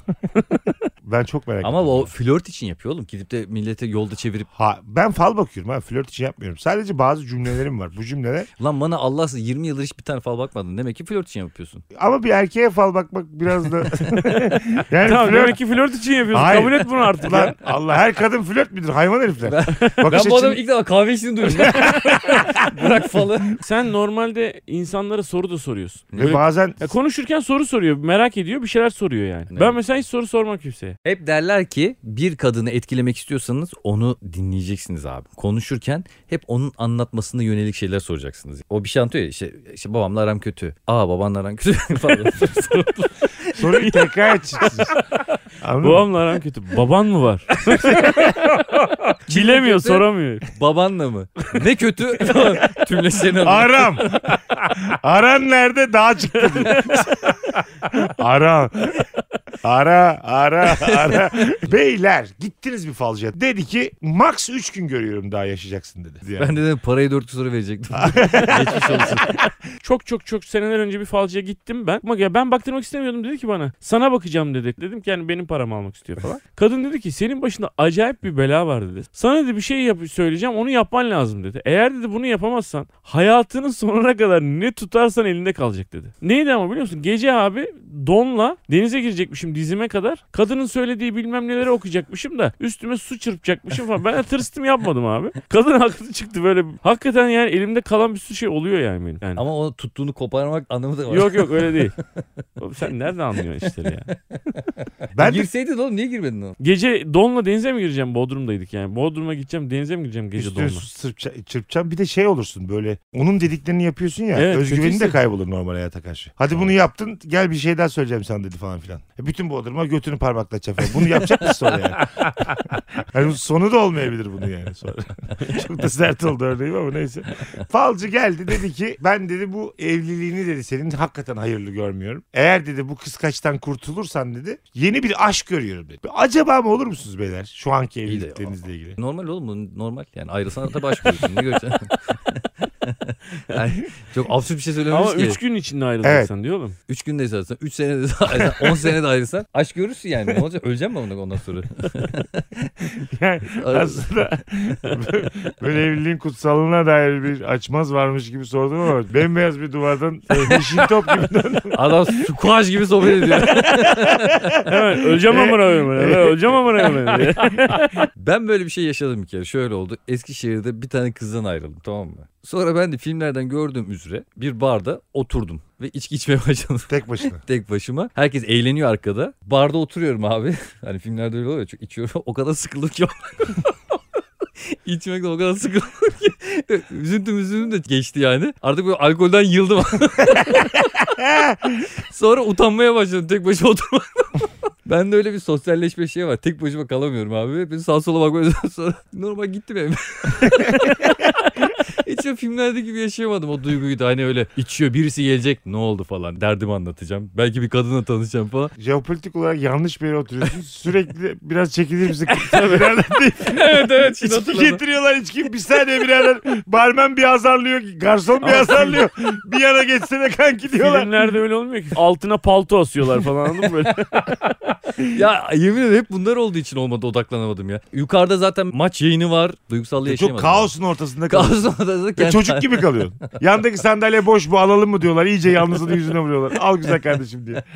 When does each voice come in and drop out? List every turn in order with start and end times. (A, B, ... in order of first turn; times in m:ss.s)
0:00.3-0:00.8 A
0:01.0-0:02.1 B
0:01.6-0:04.5 C
0:04.6-0:08.5 B
0:08.6-0:11.8 C
0:11.9-0:15.6 B
0:14.4-0:17.6 A
0:16.3-0:20.6 B
0:19.4-0:23.6 C
0:21.5-0:23.2 B
0:23.6-0:31.0 A
0:26.1-0:26.4 C
0:26.2-0:26.9 B
0:29.5-0:29.8 C
0:31.0-0:43.6 C
0:43.5-0:44.9 B
0:43.6-0:44.9 A
0:45.6-0:46.1 B
0:45.8-0:48.6 A
0:47.8-0:48.4 B
0:49.3-0:50.5 A
0:49.3-0:53.9 C
0:53.3-0:59.1 B
0:56.5-0:57.3 A
0:59.6-1:06.6 B
1:06.4-1:09.3 C
1:07.9-1:09.4 B
1:09.8-1:39.4 A
1:39.4-1:41.8 C
1:41.1-1:42.0 A
1:42.6-1:44.1 A
1:43.6-1:46.6 C
1:45.1-1:45.5 B
1:46.6-1:50.8 A
1:50.4-2:19.0 B
1:54.3-1:55.2 A
2:18.1-2:25.4 C
2:24.9-2:26.8 A
2:26.0-2:26.3 B
2:26.9-2:32.7 C
2:33.0-2:42.2 B
2:33.6-2:34.1 C
2:40.3-2:40.6 C
2:41.7-2:44.6 C
2:43.0-2:48.0 B
2:44.6-2:48.1 A
2:48.2-3:03.7 C
2:56.9-2:57.4 B
3:04.8-3:10.8 C
3:10.5-3:11.8 B
3:12.0-3:28.7 C
3:28.8-3:41.1 B
3:32.4-3:32.9 A
3:33.4-3:34.8 C
3:38.4-3:39.0 A
3:40.7-3:44.4 A
3:45.1-3:50.7 C
3:50.0-3:57.6 B
3:51.3-3:53.2 C